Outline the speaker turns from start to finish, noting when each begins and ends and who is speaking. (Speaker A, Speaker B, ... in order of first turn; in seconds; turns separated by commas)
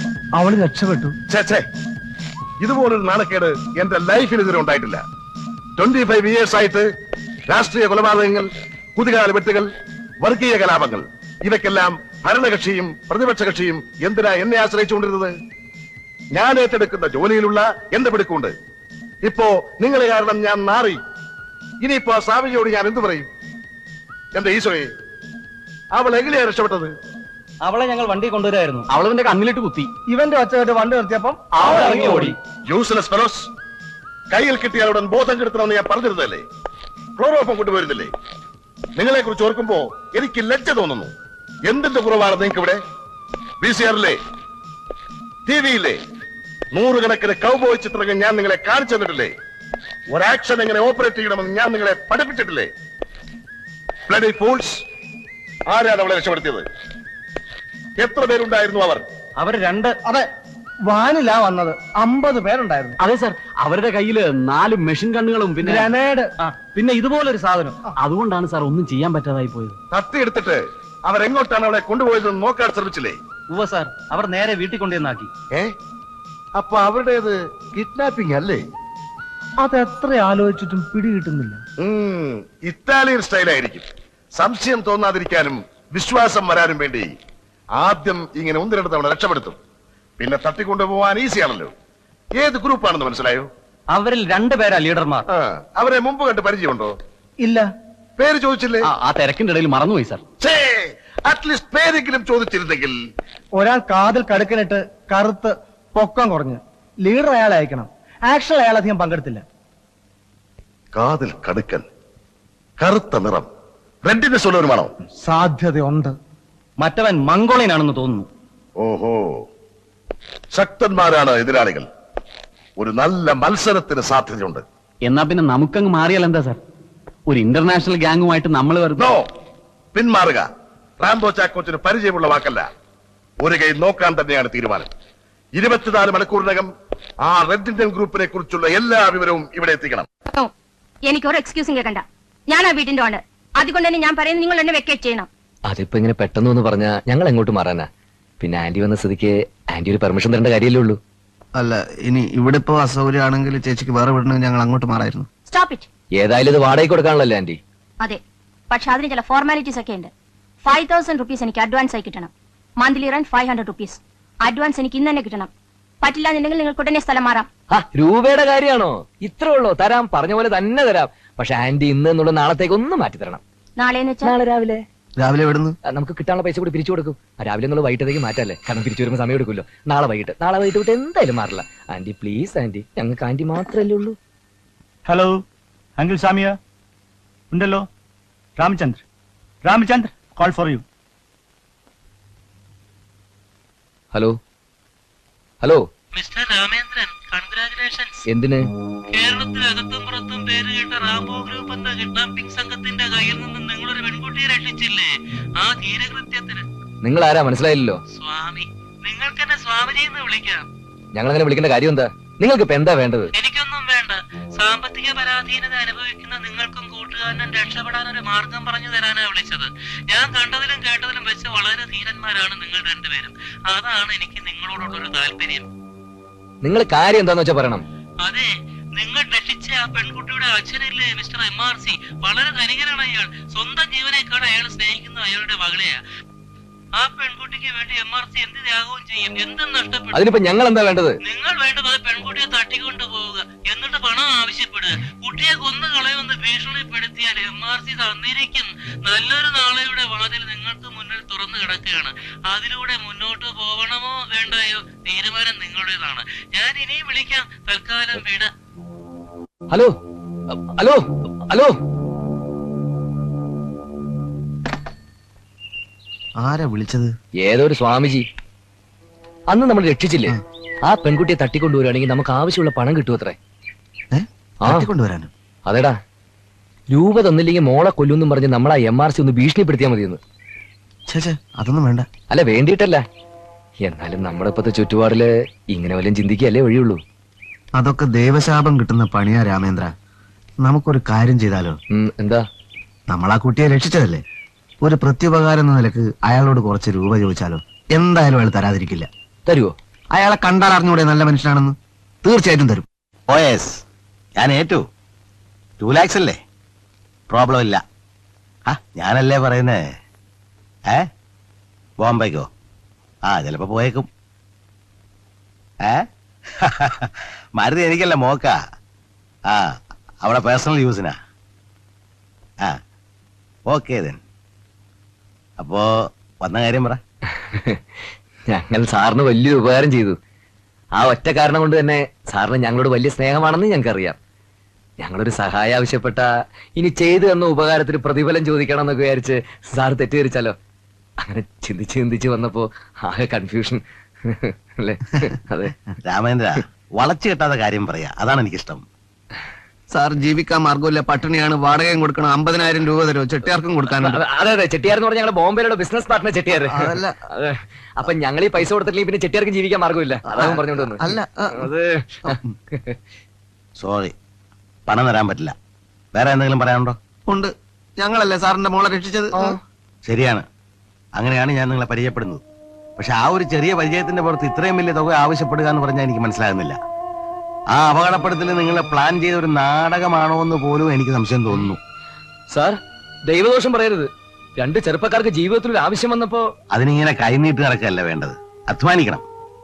Speaker A: 0.4-1.1, Speaker B: 1.3-1.6, Speaker B: 2.6-5.0, Speaker B: 5.8-6.8, Speaker B: 7.5-9.7, Speaker B: 10.2-15.3, Speaker B: 16.3-18.5, Speaker B: 19.2-21.0, Speaker B: 21.8-23.3, Speaker B: 24.3-24.9, Speaker B: 25.9-26.9, Speaker C: 27.6-28.8, Speaker D: 28.9-29.9, Speaker A: 30.1-32.3, Speaker D: 31.5-32.4, Speaker C: 31.7-32.3, Speaker B: 32.7-33.5, Speaker B: 34.3-36.4, Speaker B: 37.2-38.1, Speaker B: 39.0-41.1, Speaker B: 41.6-42.8, Speaker B: 43.6-44.2, Speaker B: 45.5-46.0, Speaker B: 46.7-49.3, Speaker B: 50.1-52.7, Speaker B: 54.1-54.8, Speaker B: 55.7-56.6, Speaker B: 58.0-59.0, Speaker C: 59.4-60.0, Speaker A: 60.0-60.3, Speaker A: 60.9-63.0, Speaker D: 63.0-65.9, Speaker A: 65.6-66.3, Speaker C: 66.7-67.8, Speaker D: 68.0-69.8, Speaker B: 69.9-73.2, Speaker C: 73.5-75.3, Speaker B: 76.6-78.6, Speaker A: 79.6-81.6, Speaker B: 81.8-87.1, Speaker B: 87.8-89.6, Speaker B: 90.2-91.7, Speaker B: 92.4-93.5, Speaker C: 93.9-95.2, Speaker B: 95.3-96.9, Speaker A: 97.4-97.7, Speaker B: 98.2-98.9, Speaker D: 98.8-100.2, Speaker B: 100.4-103.0, Speaker A: 103.6-109.4, Speaker B: 110.9-111.9, Speaker B: 112.8-113.5, Speaker B: 114.0-114.9, Speaker A: 115.2-116.2, Speaker C: 116.8-118.3, Speaker B: 118.8-119.4, Speaker B: 120.5-121.9, Speaker B: 122.8-124.6, Speaker D: 125.0-126.6, Speaker D: 127.3-129.1, Speaker B: 129.0-129.3, Speaker B: 129.9-130.5, Speaker B: 131.0-132.7, Speaker B: 133.4-134.9, Speaker B: 135.6-136.7, Speaker B: 137.2-140.1, Speaker E: 140.2-140.5, Speaker E: 141.1-145.3, Speaker F: 145.7-147.9, Speaker F: 148.4-151.0, Speaker G: 151.6-155.3, Speaker E: 155.5-155.9, Speaker F: 156.2-157.6, Speaker E: 158.0-160.1, Speaker E: 160.6-165.5, Speaker E: 166.0-167.5, Speaker F: 167.7-173.4, Speaker E: 173.8-174.3, Speaker F: 174.2-174.8, Speaker G: 175.2-175.8, Speaker F: 175.9-184.2, Speaker H: 185.1-185.4, Speaker H: 186.0-186.6, Speaker H: 187.5-187.8, Speaker H: 188.6-189.0, Speaker H: 189.6-190.8, Speaker I: 196.1-198.2, Speaker F: 198.3-198.6, Speaker I: 199.1-206.6, Speaker F: 207.0-208.0, Speaker I: 208.2-210.7, Speaker F: 211.1-213.3, Speaker I: 213.3-225.6, Speaker F: 226.6-227.8, Speaker I: 228.2-236.0, Speaker I: 237.0-240.2, Speaker F: 240.1-241.2, Speaker I: 241.2-258.5, Speaker F: 260.5-261.8, Speaker G: 266.4-267.1, Speaker F: 267.4-268.2, Speaker F: 269.5-273.4, Speaker G: 274.1-275.3, Speaker F: 275.7-275.9, Speaker F: 276.9-280.2, Speaker G: 281.1-282.1, Speaker F: 282.3-283.0, Speaker F: 283.8-287.0, Speaker G: 287.8-289.9, Speaker G: 290.6-291.8, Speaker F: 291.9-292.5, Speaker G: 293.1-294.2, Speaker G: 294.8-299.1, Speaker F: 299.5-299.7, Speaker G: 300.1-302.9, Speaker J: 303.3-303.8, Speaker J: 304.4-304.8, Speaker J: 305.8-306.4, Speaker J: 307.3-307.8, Speaker J: 308.7-309.8, Speaker J: 312.0-312.5, Speaker J: 313.3-314.1, Speaker J: 316.6-318.6, Speaker J: 319.5-321.1, Speaker J: 323.7-324.2, Speaker J: 325.6-327.0, Speaker F: 327.3-327.8, Speaker F: 328.5-330.2, Speaker F: 330.9-334.2, Speaker F: 335.0-336.2, Speaker F: 336.8-340.6, Speaker F: 341.2-345.8, Speaker J: 346.1-348.8, Speaker G: 349.9-354.2, Speaker F: 353.9-363.0, Speaker G: 356.5-357.2, Speaker G: 360.3-361.7, Speaker G: 362.2-362.5, Speaker J: 363.8-364.1, Speaker J: 364.9-365.5, Speaker J: 366.1-367.0, Speaker G: 367.3-369.6, Speaker J: 370.1-370.4, Speaker J: 371.2-372.4, Speaker J: 373.0-376.8, Speaker J: 377.7-381.8, Speaker F: 382.5-386.5, Speaker J: 386.7-389.2